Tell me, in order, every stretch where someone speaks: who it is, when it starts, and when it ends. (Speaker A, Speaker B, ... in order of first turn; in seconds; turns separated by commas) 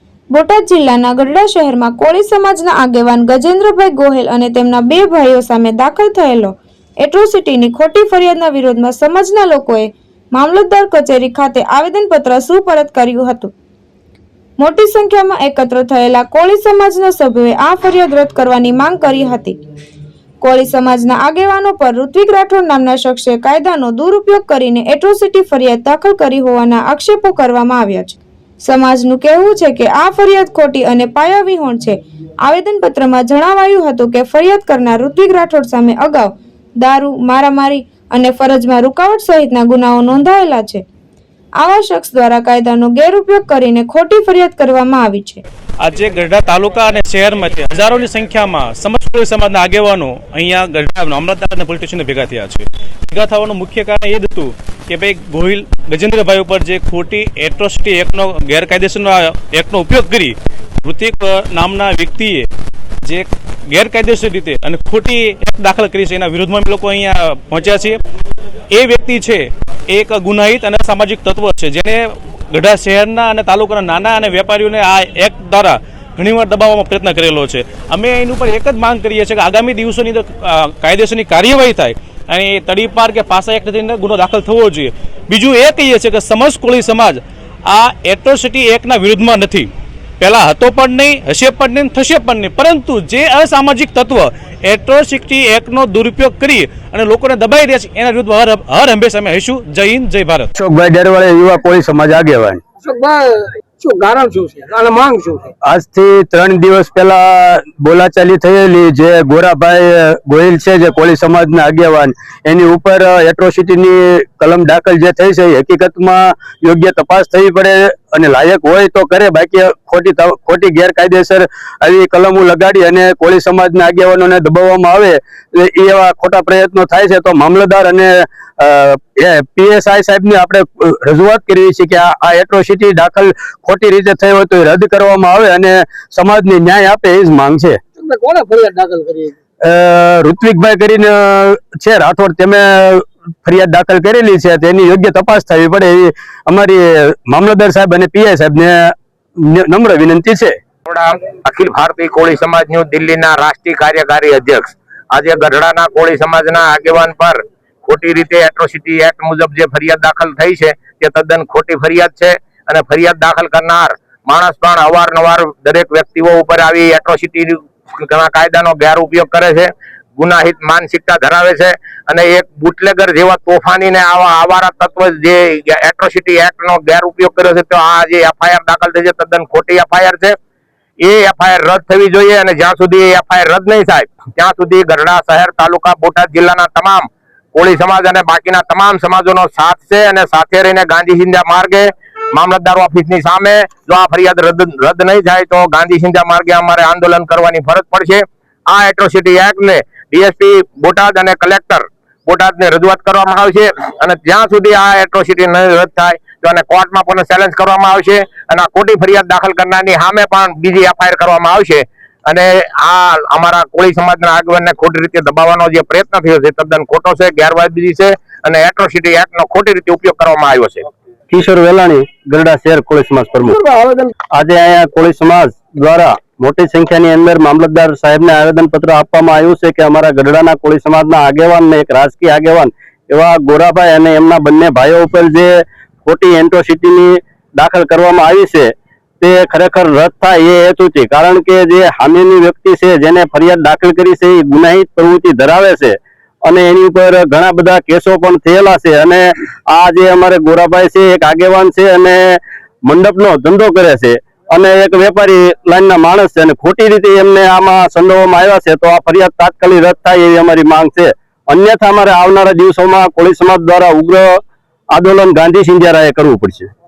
Speaker A: 0.3-13.5, Speaker A: 14.6-19.6, Speaker A: 20.4-40.8, Speaker A: 41.6-45.4, Speaker B: 45.8-62.5, Speaker B: 63.0-68.0, Speaker B: 68.7-100.5, Speaker C: 100.5-102.6, Speaker D: 102.8-105.5, Speaker C: 105.7-137.8, Speaker D: 138.0-139.3, Speaker C: 139.6-150.5, Speaker E: 150.9-180.3, Speaker E: 181.0-220.9, Speaker C: 221.3-223.6, Speaker D: 223.6-224.1, Speaker C: 224.3-264.4, Speaker C: 264.9-266.7